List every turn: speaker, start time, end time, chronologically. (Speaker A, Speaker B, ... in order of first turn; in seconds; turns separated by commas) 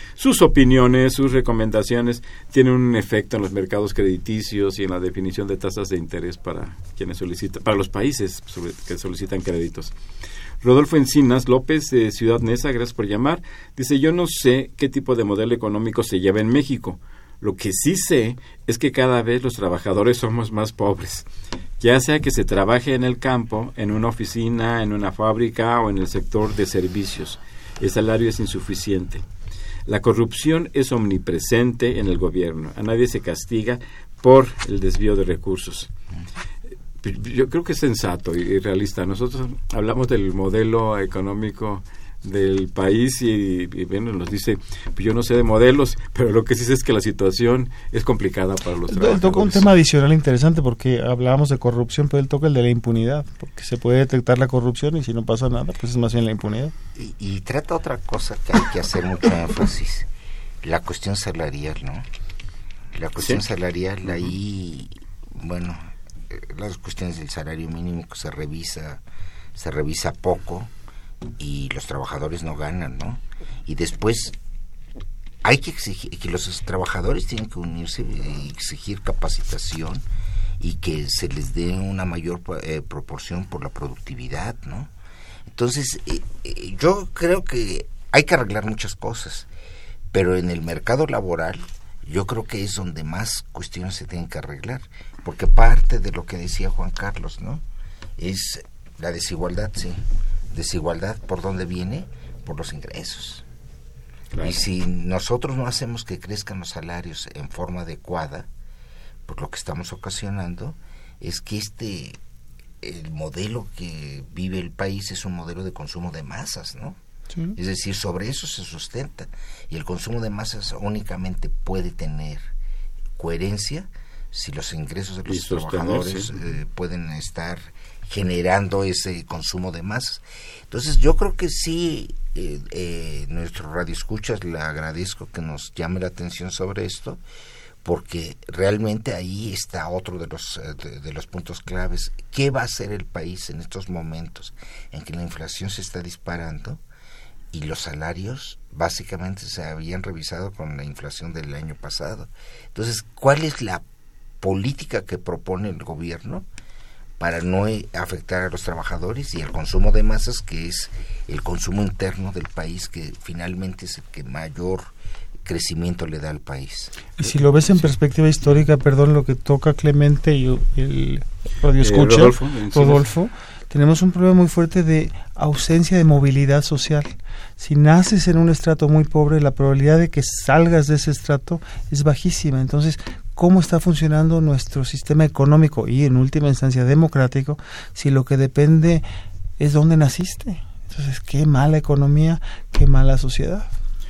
Speaker A: 0.2-9.9, Speaker A: 10.6-21.3, Speaker A: 21.8-29.2, Speaker A: 29.9-35.9, Speaker A: 37.0-49.7, Speaker B: 48.9-56.7, Speaker C: 57.0-60.1, Speaker C: 60.6-62.0, Speaker C: 62.9-69.0, Speaker A: 63.2-63.4, Speaker C: 69.5-70.7, Speaker C: 71.4-74.3, Speaker C: 75.4-80.0, Speaker C: 80.6-84.9, Speaker C: 85.5-89.5, Speaker C: 90.1-97.6, Speaker C: 98.2-103.4, Speaker A: 104.3-104.6, Speaker C: 104.4-108.5, Speaker C: 109.2-112.2, Speaker C: 112.8-117.0, Speaker C: 117.5-122.5, Speaker C: 123.2-137.2, Speaker A: 125.3-126.3, Speaker C: 137.8-146.8, Speaker C: 147.5-153.8, Speaker C: 154.4-156.5, Speaker C: 157.2-164.9, Speaker C: 165.4-167.0, Speaker A: 167.2-167.9, Speaker B: 167.2-189.0, Speaker A: 171.8-173.0, Speaker B: 189.6-193.7